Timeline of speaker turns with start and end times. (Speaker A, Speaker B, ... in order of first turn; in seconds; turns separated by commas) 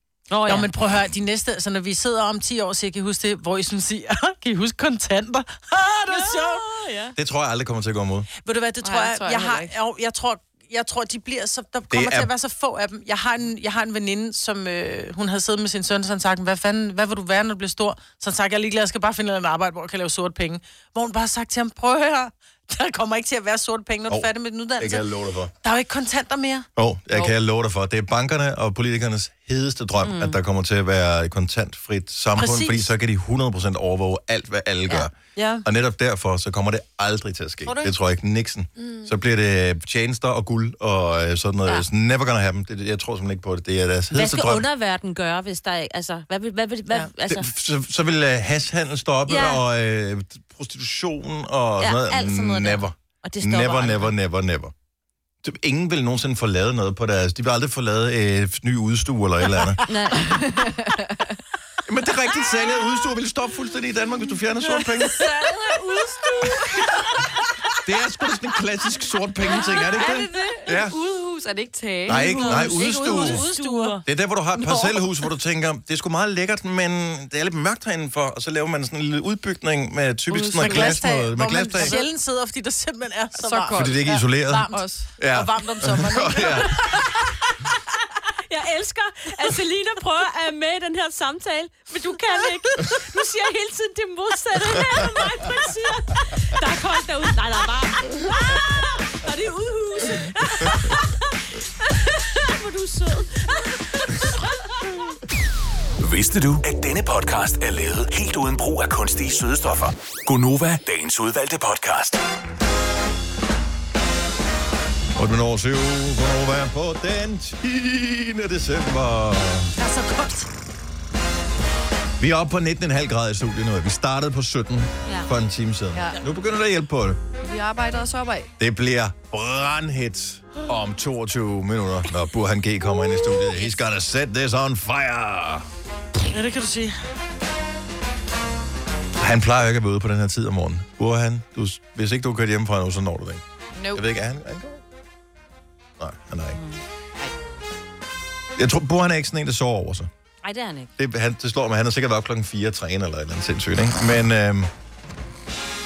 Speaker A: 0.3-0.7, Speaker B: 0.5-6.6, Speaker A: 6.1-7.1, Speaker C: 7.2-8.3, Speaker B: 8.4-25.1, Speaker D: 8.8-9.7, Speaker C: 11.9-12.3, Speaker C: 24.1-25.5, Speaker B: 25.6-26.7, Speaker C: 26.8-44.6, Speaker A: 30.0-30.4, Speaker B: 32.4-32.9, Speaker B: 35.4-35.6, Speaker B: 38.8-39.1, Speaker A: 44.1-47.5, Speaker C: 47.3-54.7, Speaker A: 49.3-49.6, Speaker A: 51.8-54.1, Speaker C: 55.4-59.8, Speaker A: 59.9-60.4, Speaker D: 60.2-61.2, Speaker C: 61.9-65.3, Speaker D: 65.0-66.8, Speaker C: 67.8-71.0, Speaker D: 69.8-72.8, Speaker C: 72.1-73.5, Speaker A: 72.1-74.0, Speaker B: 72.5-74.0, Speaker C: 74.1-82.0, Speaker D: 80.3-81.0, Speaker B: 80.6-87.0, Speaker D: 81.8-82.1, Speaker D: 83.4-85.1, Speaker C: 83.7-87.0, Speaker A: 88.5-104.4, Speaker E: 106.0-112.2, Speaker C: 115.2-119.8, Speaker B: 119.8-120.5, Speaker C: 122.2-127.2, Speaker D: 126.0-126.2, Speaker D: 127.4-128.5, Speaker C: 128.6-135.7, Speaker B: 136.3-136.9, Speaker C: 139.2-144.8, Speaker D: 143.7-144.0, Speaker C: 146.0-146.6, Speaker A: 146.6-146.8, Speaker C: 148.6-150.1, Speaker A: 150.4-150.9, Speaker C: 151.0-154.7